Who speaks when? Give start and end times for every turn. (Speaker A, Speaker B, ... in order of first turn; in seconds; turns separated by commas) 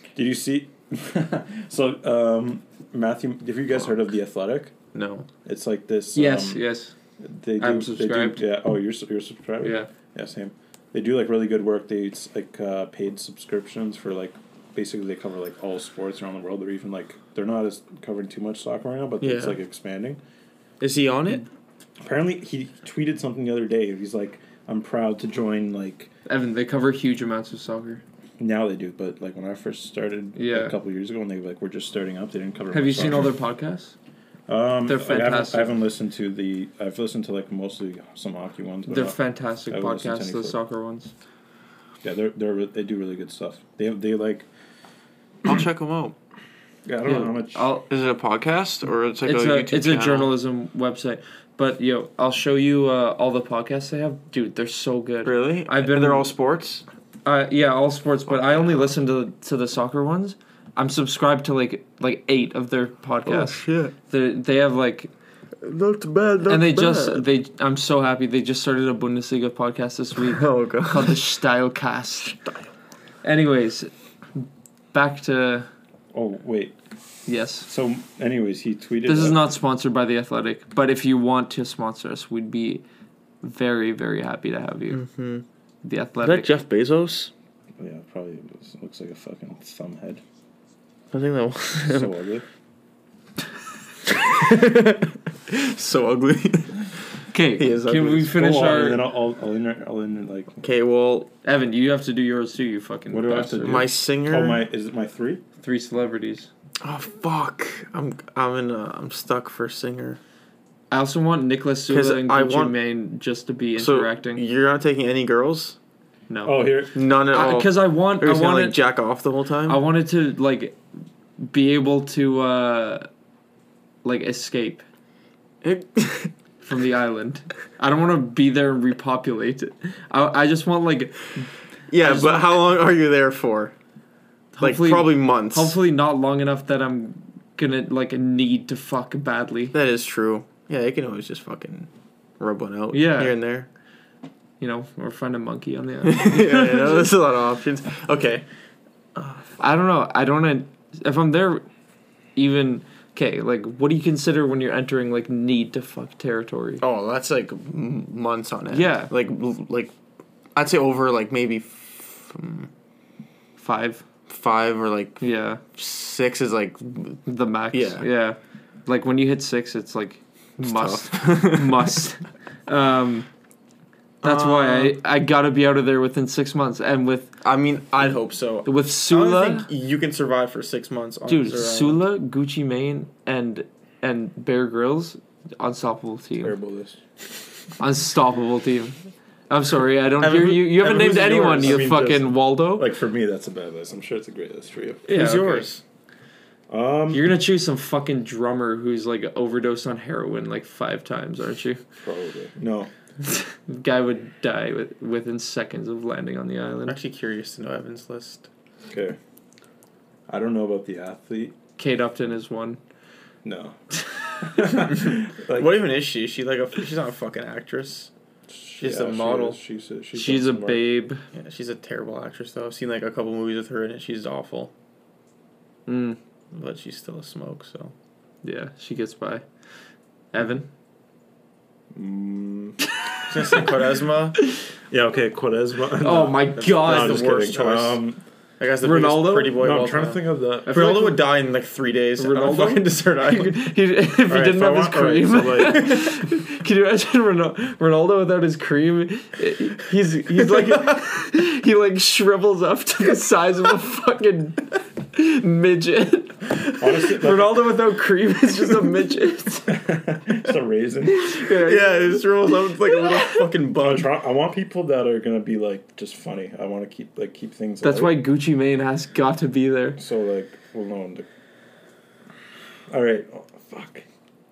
Speaker A: 0.1-4.7, Speaker B: 4.9-5.3, Speaker A: 5.4-6.6, Speaker C: 6.1-6.9, Speaker A: 7.2-20.2, Speaker C: 7.6-8.4, Speaker C: 9.6-9.9, Speaker B: 19.2-19.6, Speaker B: 20.8-21.4, Speaker A: 22.0-26.1, Speaker C: 26.3-28.0, Speaker A: 28.4-33.3, Speaker C: 30.4-30.7, Speaker C: 32.7-33.9, Speaker A: 34.5-39.1, Speaker C: 34.9-35.7, Speaker C: 38.9-41.1, Speaker A: 39.7-40.6, Speaker A: 42.0-44.5, Speaker B: 45.4-46.1, Speaker A: 46.9-47.7, Speaker C: 47.0-47.9, Speaker B: 47.9-50.3, Speaker C: 49.2-56.3, Speaker B: 55.2-56.8, Speaker C: 57.2-65.1, Speaker B: 63.2-63.9, Speaker B: 65.6-67.2, Speaker C: 66.5-72.4, Speaker B: 70.2-71.3, Speaker C: 73.2-73.9, Speaker C: 74.9-75.7, Speaker A: 76.1-76.7, Speaker C: 77.3-77.7, Speaker A: 77.6-79.4, Speaker C: 79.0-82.8, Speaker C: 83.4-85.0, Speaker B: 84.9-85.4, Speaker C: 85.8-86.5, Speaker B: 86.2-87.3, Speaker A: 87.8-90.2, Speaker B: 91.1-92.1, Speaker A: 91.9-92.4, Speaker B: 94.0-96.9, Speaker C: 97.3-99.0, Speaker B: 97.6-98.6, Speaker A: 98.3-100.5, Speaker B: 100.6-101.3, Speaker C: 101.4-103.8, Speaker A: 103.1-105.4, Speaker B: 103.6-104.6, Speaker C: 105.6-106.5, Speaker B: 106.8-110.2, Speaker C: 110.9-114.4, Speaker B: 111.9-112.7, Speaker B: 113.8-115.8, Speaker C: 116.3-116.6, Speaker A: 116.4-116.9, Speaker B: 116.9-119.8, Speaker C: 117.3-118.8, Speaker C: 119.7-120.8, Speaker C: 121.4-123.1, Speaker C: 124.0-124.8, Speaker B: 125.6-126.3, Speaker C: 126.6-131.5, Speaker B: 131.9-133.7, Speaker C: 132.0-132.5, Speaker C: 134.6-139.7, Speaker B: 134.6-135.8, Speaker B: 139.7-141.9, Speaker B: 142.4-143.7, Speaker C: 142.9-143.3, Speaker C: 144.6-147.1, Speaker B: 146.0-148.4, Speaker B: 149.2-149.5, Speaker C: 149.6-151.6, Speaker C: 152.3-156.8, Speaker B: 156.8-159.9, Speaker C: 158.7-159.1, Speaker B: 160.5-162.7, Speaker C: 163.6-164.0, Speaker B: 164.3-165.2, Speaker C: 165.2-165.6, Speaker B: 165.7-167.2, Speaker C: 167.2-173.3, Speaker B: 167.7-168.0, Speaker B: 170.6-172.0, Speaker B: 174.2-175.0, Speaker C: 174.2-177.3, Speaker B: 177.4-182.0, Speaker C: 178.7-179.7, Speaker C: 181.3-186.5, Speaker A: 186.4-187.0, Speaker C: 187.8-189.0, Speaker C: 189.5-192.9, Speaker B: 190.2-191.9, Speaker A: 190.9-195.1, Speaker C: 195.1-195.7, Speaker B: 195.1-195.8, Speaker A: 196.7-197.3, Speaker C: 197.1-201.8, Speaker A: 202.0-202.9, Speaker C: 203.3-207.0, Speaker B: 206.9-208.5, Speaker A: 208.9-209.2, Speaker A: 210.3-211.5, Speaker C: 211.8-212.8, Speaker A: 213.4-215.7, Speaker B: 214.6-218.1, Speaker A: 218.5-220.8, Speaker B: 218.8-219.6, Speaker C: 220.1-221.2, Speaker B: 221.3-224.7, Speaker C: 225.9-226.2, Speaker B: 226.5-227.9, Speaker C: 228.4-229.4, Speaker C: 230.3-230.7, Speaker A: 231.9-232.8, Speaker B: 233.3-234.4, Speaker A: 234.9-238.2, Speaker C: 236.0-237.5, Speaker B: 236.6-238.0, Speaker B: 238.6-243.7, Speaker C: 238.8-239.6, Speaker A: 239.5-240.7, Speaker C: 240.7-241.2, Speaker C: 242.2-259.8, Speaker A: 244.3-245.8, Speaker B: 244.3-246.3, Speaker B: 250.5-250.8, Speaker A: 256.8-257.6, Speaker A: 259.7-261.4, Speaker C: 261.1-263.4, Speaker B: 261.6-264.1, Speaker A: 263.8-268.2, Speaker C: 267.8-270.0, Speaker A: 270.0-271.3, Speaker A: 272.9-274.0